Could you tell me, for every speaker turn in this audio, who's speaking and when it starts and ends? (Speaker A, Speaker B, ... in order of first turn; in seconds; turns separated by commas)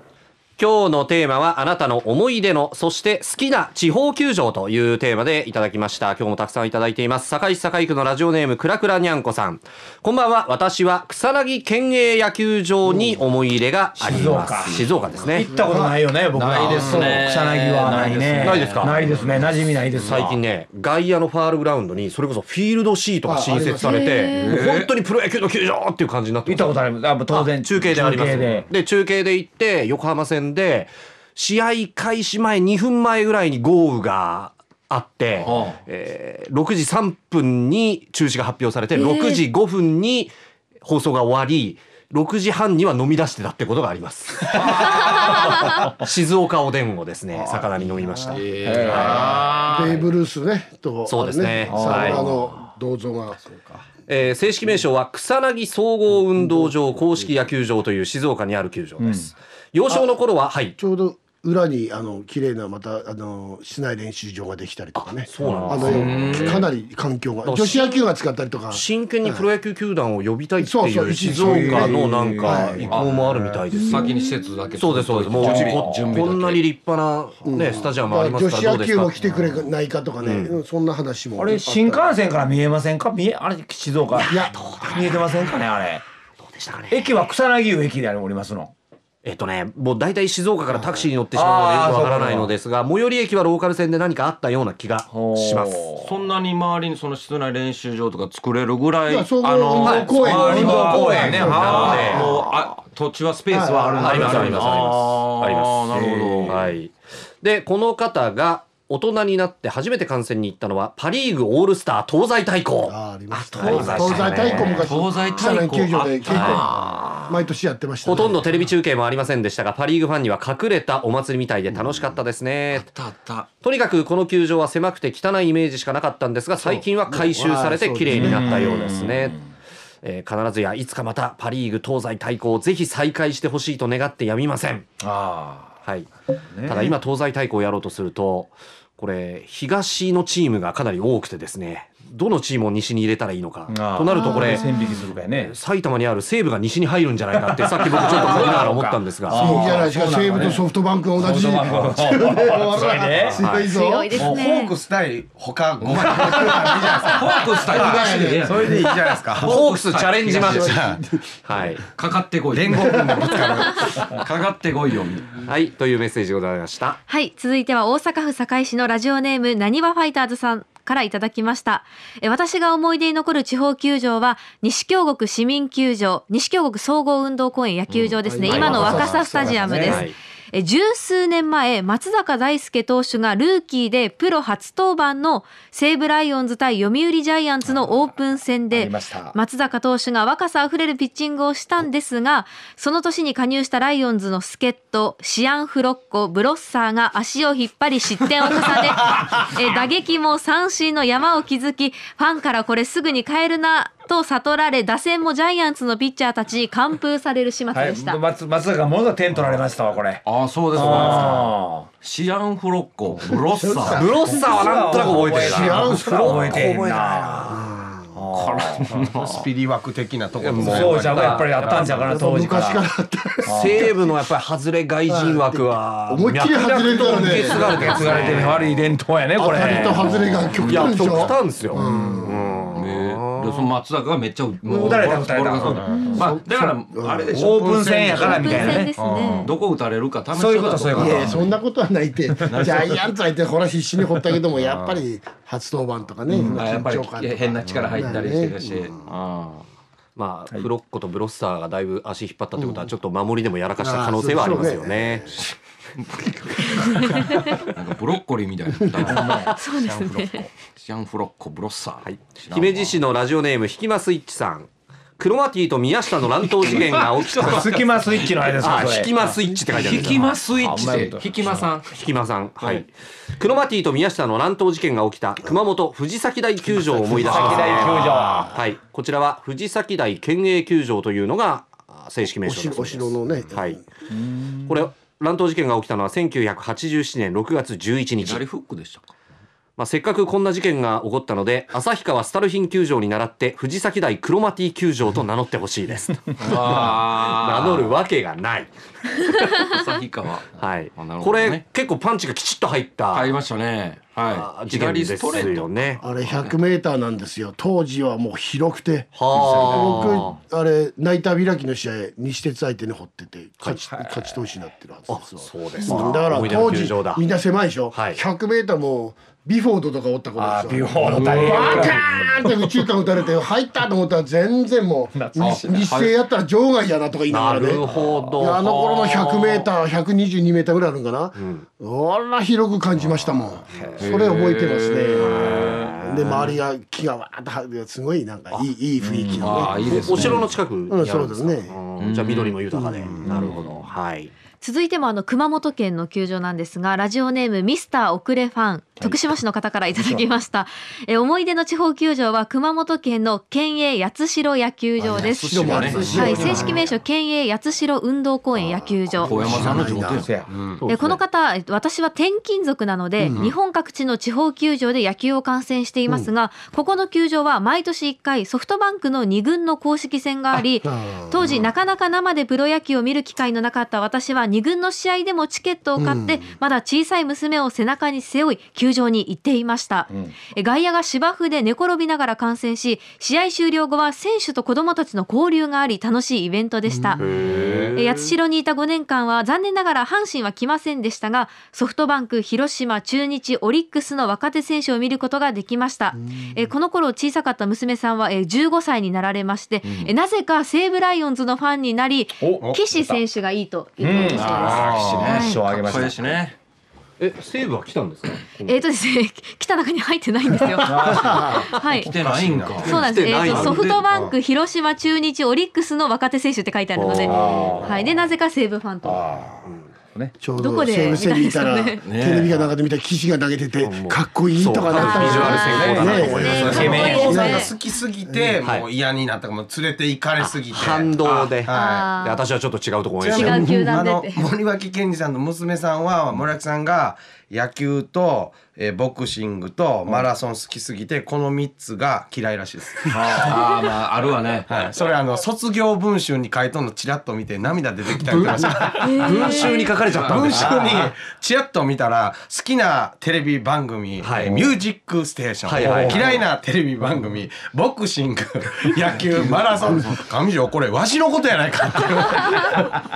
Speaker A: 0.6-15.5, Speaker B: 14.0-20.4, Speaker C: 15.5-16.0, Speaker D: 16.3-19.1, Speaker C: 16.7-17.2, Speaker A: 18.4-19.0, Speaker A: 20.0-26.8, Speaker C: 23.2-24.1, Speaker E: 23.8-24.6, Speaker D: 24.3-24.9, Speaker B: 26.4-28.7, Speaker A: 27.3-49.3, Speaker D: 35.4-35.8, Speaker E: 38.9-39.4, Speaker E: 45.0-45.7, Speaker C: 47.8-53.5, Speaker D: 48.3-50.1, Speaker B: 48.6-49.3, Speaker A: 51.0-52.2, Speaker B: 51.6-52.6, Speaker A: 54.1-60.8, Speaker C: 56.4-56.7, Speaker B: 59.0-59.3, Speaker C: 59.9-60.1, Speaker C: 60.8-69.5, Speaker A: 65.0-66.7, Speaker B: 65.4-65.9, Speaker D: 65.8-66.7, Speaker A: 67.4-68.1, Speaker A: 68.7-74.1, Speaker C: 70.6-73.3, Speaker B: 71.3-72.9, Speaker D: 72.8-76.6, Speaker A: 74.8-79.6, Speaker B: 75.4-76.2, Speaker C: 77.4-82.2, Speaker A: 80.2-80.6, Speaker B: 81.4-86.0, Speaker A: 84.1-85.6, Speaker C: 84.3-84.6, Speaker A: 86.4-87.1, Speaker B: 86.9-88.7, Speaker A: 89.2-95.9, Speaker C: 90.7-91.1, Speaker B: 91.3-92.5, Speaker B: 95.1-96.1, Speaker D: 96.0-106.7, Speaker C: 99.1-102.7, Speaker A: 99.8-102.2, Speaker B: 100.2-102.3, Speaker C: 103.5-104.4, Speaker B: 103.9-105.2, Speaker A: 104.0-105.8, Speaker B: 105.9-106.6, Speaker A: 106.5-114.9, Speaker C: 112.9-118.5, Speaker B: 113.6-114.8, Speaker D: 114.5-117.0, Speaker A: 116.3-116.6, Speaker B: 116.7-117.4, Speaker A: 118.0-122.9, Speaker D: 122.7-123.5, Speaker A: 123.6-129.4, Speaker C: 126.6-128.8, Speaker B: 128.1-129.4, Speaker A: 130.0-134.9, Speaker B: 135.0-135.8, Speaker A: 135.8-136.1, Speaker B: 136.5-136.9, Speaker A: 136.6-144.7, Speaker B: 143.7-145.6, Speaker E: 144.1-145.0, Speaker A: 145.3-149.8, Speaker B: 147.3-150.6, Speaker D: 148.2-148.6, Speaker C: 149.3-154.3, Speaker B: 151.2-153.5, Speaker A: 153.4-153.7, Speaker E: 153.6-154.7, Speaker F: 154.1-159.7, Speaker B: 155.9-157.3, Speaker D: 156.8-158.7, Speaker C: 157.5-158.8, Speaker A: 158.9-161.8, Speaker D: 159.4-160.7, Speaker F: 160.2-161.0, Speaker C: 160.3-161.0, Speaker D: 161.9-165.4, Speaker F: 162.5-164.2, Speaker A: 165.4-167.0, Speaker E: 167.1-208.2, Speaker D: 177.9-179.1, Speaker C: 178.2-180.0, Speaker A: 178.5-179.0, Speaker B: 178.8-180.0, Speaker F: 178.8-179.3, Speaker A: 179.8-180.2, Speaker B: 188.7-189.3, Speaker B: 207.7-211.9, Speaker D: 209.3-209.6, Speaker D: 210.2-214.2, Speaker C: 213.4-218.2, Speaker A: 213.9-217.4, Speaker B: 214.1-218.9, Speaker D: 218.3-219.3, Speaker F: 218.6-222.0, Speaker A: 220.4-221.9, Speaker B: 220.6-222.9, Speaker C: 221.9-223.9, Speaker B: 223.4-223.9, Speaker A: 223.4-228.7, Speaker C: 225.1-228.3, Speaker B: 227.1-230.9, Speaker C: 229.4-232.4, Speaker A: 229.6-233.7, Speaker B: 231.7-232.3, Speaker D: 232.7-241.5, Speaker B: 234.7-236.8, Speaker F: 235.6-236.1, Speaker E: 235.9-236.2, Speaker C: 236.1-237.4, Speaker B: 237.3-238.9, Speaker E: 238.2-239.5, Speaker F: 238.4-239.5, Speaker B: 240.3-241.5, Speaker C: 240.9-249.1, Speaker B: 242.3-242.9, Speaker D: 242.5-242.9, Speaker F: 244.6-245.0, Speaker D: 246.5-249.6, Speaker F: 247.7-248.0, Speaker A: 250.2-255.4, Speaker C: 252.6-252.9, Speaker C: 253.8-255.4, Speaker D: 256.0-256.9, Speaker A: 256.6-257.7, Speaker E: 256.8-257.5, Speaker D: 257.6-263.0, Speaker B: 259.1-259.5, Speaker E: 259.1-260.5, Speaker A: 262.0-264.7, Speaker A: 265.2-267.9, Speaker B: 266.6-269.2, Speaker D: 266.6-267.4, Speaker A: 268.4-270.3, Speaker C: 269.3-269.6, Speaker D: 269.7-271.9, Speaker B: 270.0-271.7, Speaker A: 271.8-283.8, Speaker C: 276.7-278.5, Speaker B: 277.1-278.5, Speaker C: 282.4-283.8, Speaker B: 284.1-284.7, Speaker A: 284.6-288.4, Speaker D: 288.2-289.1, Speaker A: 289.8-299.9, Speaker D: 296.4-298.0, Speaker D: 299.6-301.6, Speaker A: 300.6-303.3, Speaker D: 303.1-306.6, Speaker A: 304.3-306.0, Speaker C: 306.0-327.8, Speaker A: 309.1-310.4, Speaker B: 313.9-314.4, Speaker A: 315.1-317.2, Speaker A: 317.9-318.2, Speaker B: 320.4-322.9, Speaker D: 321.0-322.0, Speaker B: 325.1-325.9, Speaker D: 325.4-326.1, Speaker A: 327.3-328.7, Speaker B: 327.8-328.4, Speaker C: 328.4-335.4, Speaker D: 328.6-329.7, Speaker A: 331.4-331.6, Speaker B: 333.7-334.2, Speaker A: 333.7-334.1, Speaker D: 334.0-336.6, Speaker A: 335.1-336.4, Speaker B: 335.4-335.9, Speaker C: 336.0-341.8, Speaker B: 339.0-340.3, Speaker D: 339.4-340.5, Speaker A: 339.8-344.3, Speaker D: 342.0-342.6, Speaker C: 342.7-343.5, Speaker D: 343.2-343.5, Speaker B: 343.2-343.6, Speaker E: 344.6-355.5, Speaker B: 349.9-350.2, Speaker C: 355.0-356.9, Speaker D: 355.1-356.8, Speaker B: 355.6-356.0, Speaker F: 355.8-356.8, Speaker E: 356.1-359.5, Speaker C: 358.6-360.4, Speaker D: 359.2-360.3, Speaker B: 359.4-360.5, Speaker F: 360.5-360.9, Speaker A: 360.8-361.1, Speaker E: 360.9-387.4, Speaker C: 363.2-363.5, Speaker F: 363.3-363.5, Speaker C: 366.1-366.3, Speaker C: 370.6-371.6, Speaker C: 375.9-376.5, Speaker C: 386.9-387.2, Speaker A: 387.2-388.3, Speaker F: 387.6-387.9, Speaker E: 387.9-405.6, Speaker C: 396.2-396.6, Speaker D: 399.8-400.1, Speaker B: 402.4-403.2, Speaker F: 402.6-402.8, Speaker B: 404.0-406.4, Speaker D: 404.3-406.6, Speaker F: 404.6-405.5, Speaker A: 407.2-408.8, Speaker E: 408.6-412.1, Speaker B: 410.8-411.7, Speaker D: 411.9-414.1, Speaker F: 412.0-414.3, Speaker E: 412.8-419.5, Speaker A: 413.0-413.8, Speaker A: 416.9-418.0, Speaker B: 417.2-418.1, Speaker B: 419.0-420.4, Speaker C: 420.4-427.7, Speaker E: 420.5-422.1, Speaker D: 422.0-422.6, Speaker A: 423.8-427.3, Speaker E: 424.9-427.8, Speaker B: 425.5-427.3, Speaker F: 426.4-432.2, Speaker C: 428.2-428.6, Speaker A: 430.4-433.7, Speaker E: 431.7-432.4, Speaker F: 433.2-443.8, Speaker E: 433.3-434.5, Speaker D: 443.1-444.7, Speaker F: 444.6-463.0, Speaker A: 448.3-451.1, Speaker E: 449.0-449.8, Speaker A: 454.2-454.6, Speaker A: 455.6-456.3, Speaker B: 455.8-456.4, Speaker D: 459.7-460.1